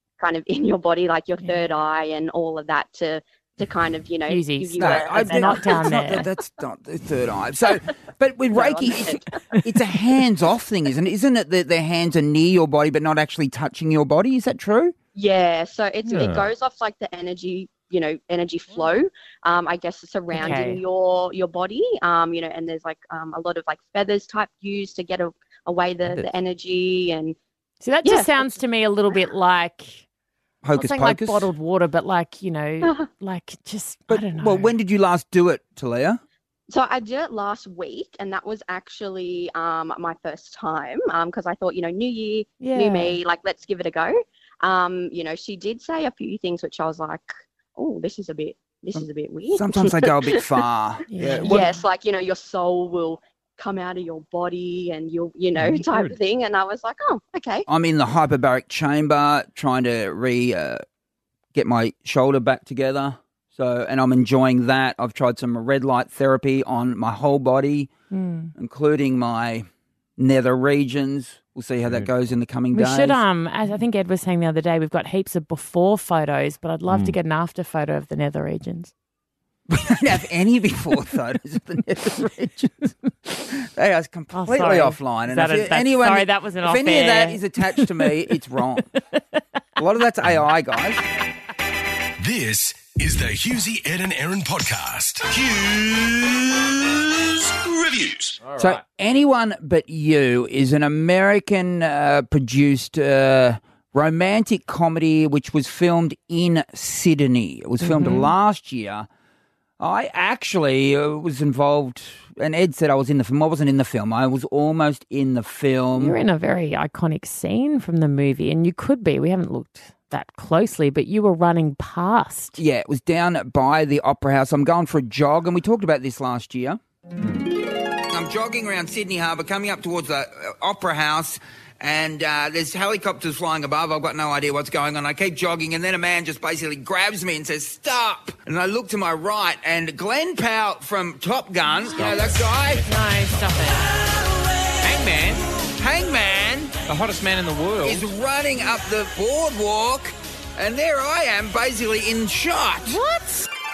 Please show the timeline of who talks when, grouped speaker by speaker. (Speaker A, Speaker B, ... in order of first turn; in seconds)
Speaker A: 0.2-6.3, 8.5-9.6, 15.1-27.4, 28.0-28.5, 36.7-50.5, 51.4-57.6
Speaker B: 4.3-6.3, 20.3-20.8, 27.8-30.0, 30.7-34.7, 42.6-43.2, 51.1-51.6, 68.1-68.5, 72.7-78.9, 84.3-87.9, 107.8-108.3, 116.0-122.6, 142.8-143.9, 152.8-153.5
Speaker C: 4.7-14.9, 30.6-31.5, 34.1-36.2, 49.0-51.7, 57.7-60.8, 61.5-67.9, 68.5-69.7, 70.2-73.2, 79.7-88.9, 89.8-91.0, 98.6-109.1, 109.8-116.2, 122.6-126.8, 128.1-142.8, 145.8-146.7, 147.8-153.0
Speaker D: 16.1-16.5, 26.0-26.3, 55.6-56.2, 71.8-72.1, 76.9-77.1, 98.4-98.8, 141.9-142.4, 144.8-145.5, 146.8-148.0
Speaker E: 92.2-96.7, 97.6-98.3